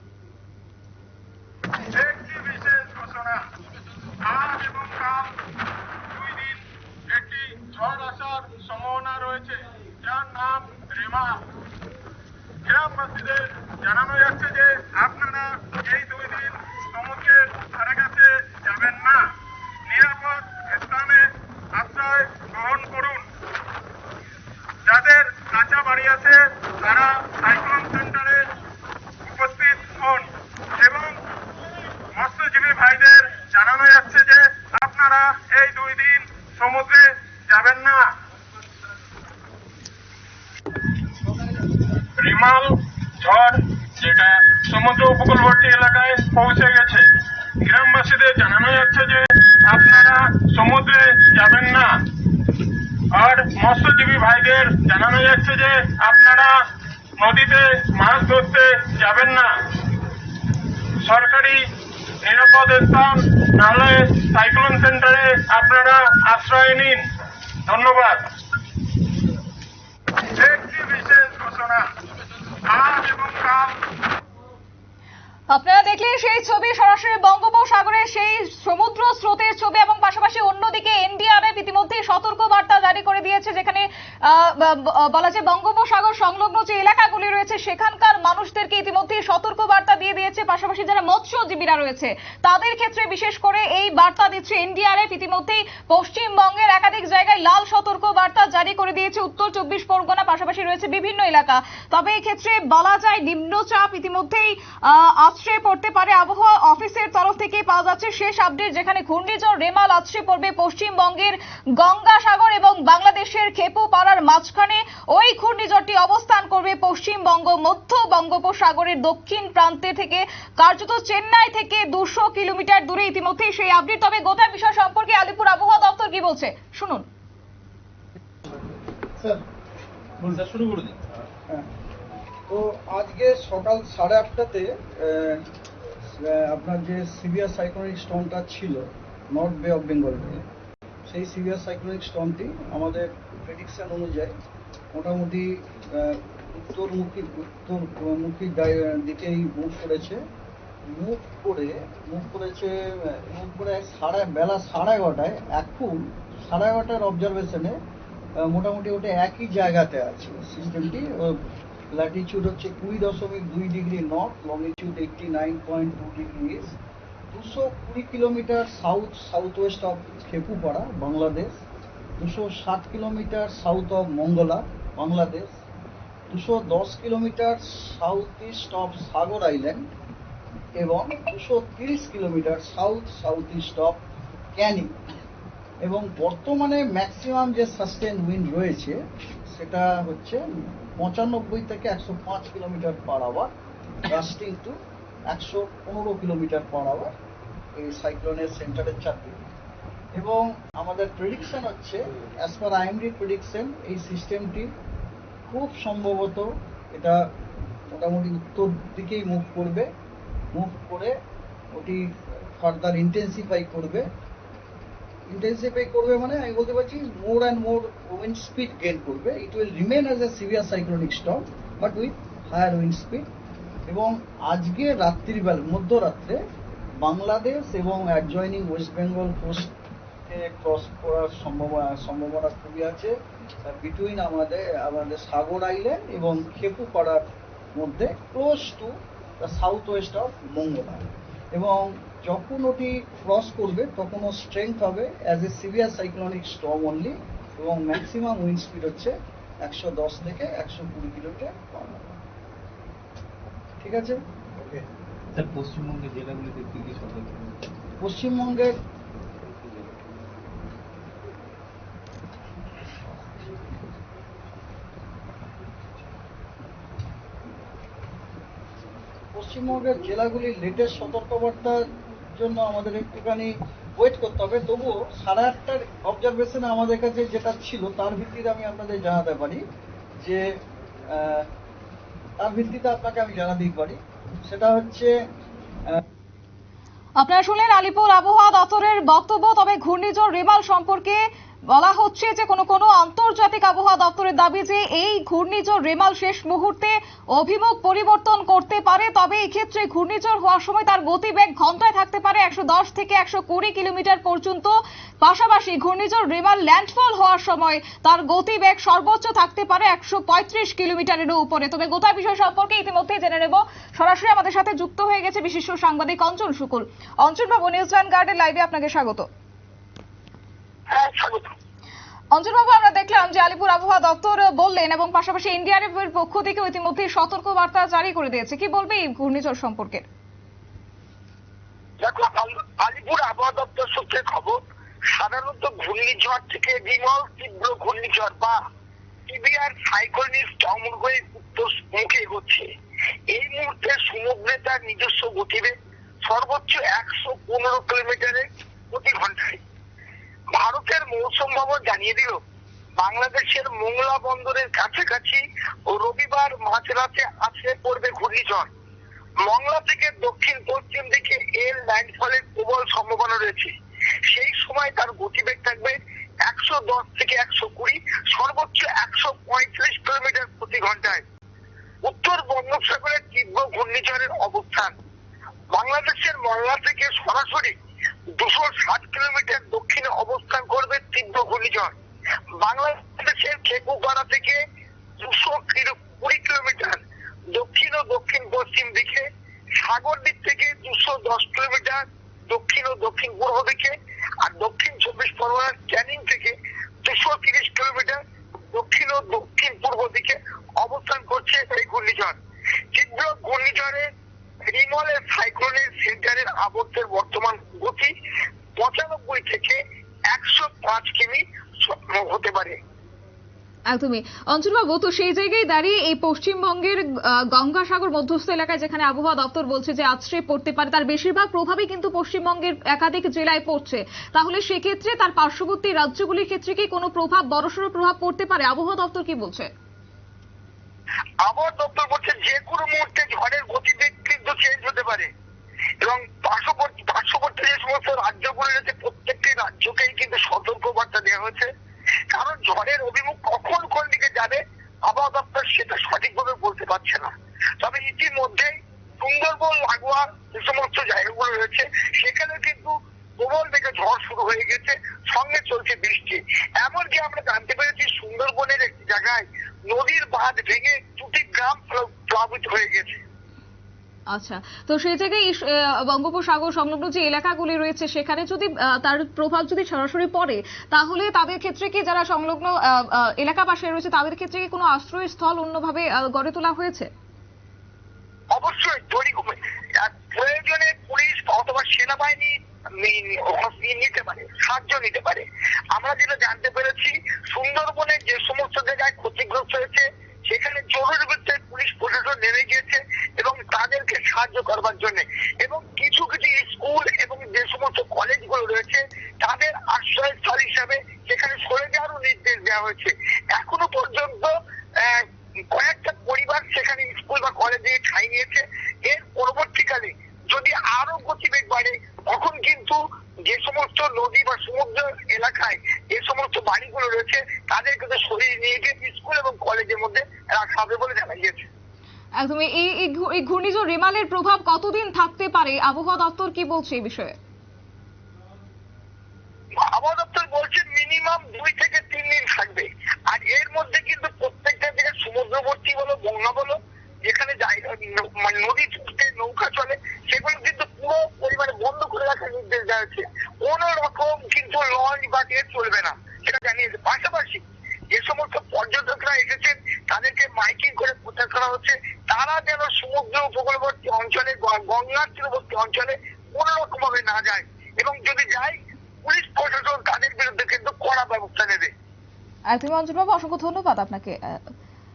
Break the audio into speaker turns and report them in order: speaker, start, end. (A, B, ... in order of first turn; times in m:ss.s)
0:01.8-0:03.5 A
0:04.2-0:05.3 A
0:06.1-0:11.4 A
0:12.6-0:19.3 A
0:19.9-0:23.3 A
0:24.8-0:28.4 A
0:29.2-0:31.2 A
0:32.1-0:38.1 A
0:41.2-0:41.7 B
0:42.2-0:47.1 A
0:47.6-0:52.0 A
0:53.1-0:56.6 A
0:57.2-0:59.5 A
1:01.0-1:01.6 A
1:02.2-1:07.0 A
1:07.7-1:08.3 A
1:10.2-1:11.9 A
1:12.7-1:13.8 A
1:15.5-2:07.1 C
2:10.3-2:11.0 D
2:12.5-2:15.4 B
2:16.1-2:20.4 B
2:21.1-2:24.3 B
2:24.9-2:30.2 B
2:30.9-2:37.7 B
2:38.4-2:41.4 B
2:41.9-2:46.8 B
2:47.3-2:51.6 B
2:52.2-2:55.5 B
2:56.3-2:59.8 B
3:00.8-3:04.0 B
3:04.6-3:04.9 B
3:05.8-3:09.0 B
3:09.5-3:13.5 B
3:14.1-3:14.8 B
3:15.3-3:17.1 B
3:17.8-3:19.4 B
3:20.2-3:24.7 B
3:25.5-3:27.2 B
3:27.9-3:29.9 B
3:30.5-3:31.1 B
3:31.7-3:34.1 B
3:35.3-3:43.3 B
3:43.9-3:46.4 B
3:47.0-3:49.7 B
3:50.3-3:53.1 B
3:53.6-3:57.2 B
3:57.8-4:12.2 B
4:13.8-4:14.8 B
4:15.3-4:17.6 D
4:18.0-4:18.7 B
4:19.4-4:20.0 D
4:29.3-4:39.6 B
4:40.2-4:40.5 B
4:41.1-4:41.5 B
4:42.4-4:45.1 B
4:47.2-5:19.3 C
5:20.9-5:21.5 E
5:22.3-5:30.1 C
5:32.0-5:34.6 E
5:35.2-5:38.6 E
5:39.3-5:42.6 E
5:43.3-5:45.7 E
5:46.3-5:49.6 E
5:50.5-5:52.4 E
5:53.0-5:58.7 E
5:59.5-6:03.7 E
6:04.3-6:11.2 E
6:12.0-6:14.9 E
6:15.7-6:17.7 E
6:18.4-6:21.9 E
6:22.6-6:24.6 E
6:25.2-6:27.0 E
6:27.5-6:29.2 E
6:29.8-6:38.2 E
6:38.7-6:42.4 E
6:42.9-6:44.1 E
6:44.7-6:48.1 E
6:48.8-6:49.8 E
6:50.3-6:52.8 E
6:53.9-7:09.7 C
7:11.4-7:15.3 E
7:16.0-7:21.7 E
7:22.3-7:27.3 E
7:27.8-7:43.2 E
7:44.3-7:57.1 C
7:58.5-8:24.5 E
8:25.0-8:41.6 E
8:42.4-8:47.4 C
8:49.8-9:21.9 E
9:22.7-9:24.6 C